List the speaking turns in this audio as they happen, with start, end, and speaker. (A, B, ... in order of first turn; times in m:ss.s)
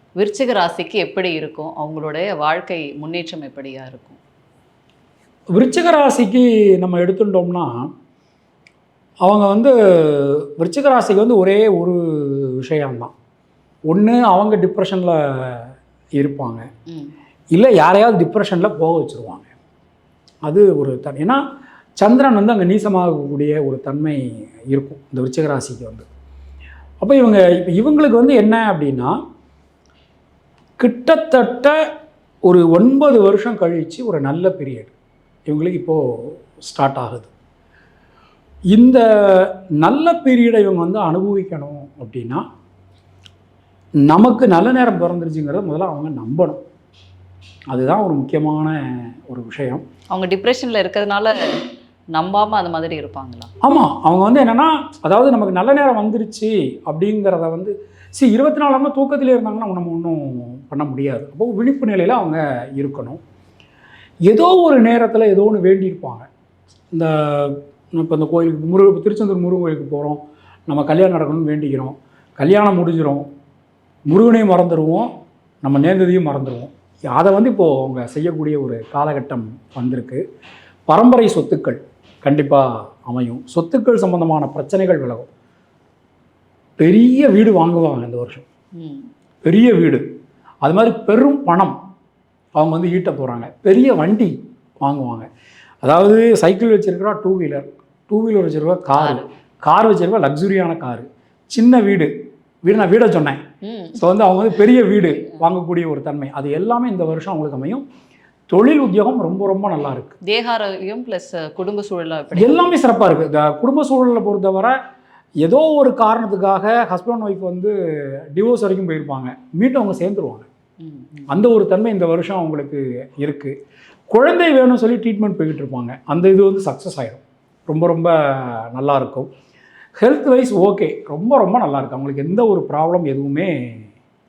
0:00.2-0:04.2 A
0:05.5-0:07.9 B
0:09.2-0:13.1 B
0:13.9-0:16.7 B
0:17.5-0:19.5 B
0:20.4-0:21.4 B
0:22.0-0:26.1 B
0:27.0-0:29.1 B
0:30.8-0:31.8 B
0:32.4-0:34.9 B
0:35.4-0:37.3 B
0:38.7-0:42.4 B
0:44.1-0:46.6 B
0:47.7-0:49.8 B
0:50.1-0:51.3 A
0:52.1-0:53.5 A
0:53.6-1:03.2 B
1:04.3-1:06.3 B
1:06.9-1:13.3 B
1:14.1-1:15.1 B
1:15.6-1:20.2 B
1:20.9-1:25.3 B
1:26.8-1:28.4 B
1:28.8-1:29.1 A
1:29.4-1:30.0 B
1:30.6-1:31.8 B
1:32.6-1:35.3 B
1:35.8-1:42.1 B
1:39.0-1:39.3 A
1:42.6-1:43.4 B
1:43.6-1:44.0 A
1:44.0-1:47.8 B
1:48.5-1:50.2 B
1:50.2-1:52.7 A
1:52.3-1:54.8 B
1:55.4-2:00.5 B
2:00.8-2:01.3 A
2:01.3-2:03.5 B
2:04.1-2:09.3 B
2:10.0-2:13.9 B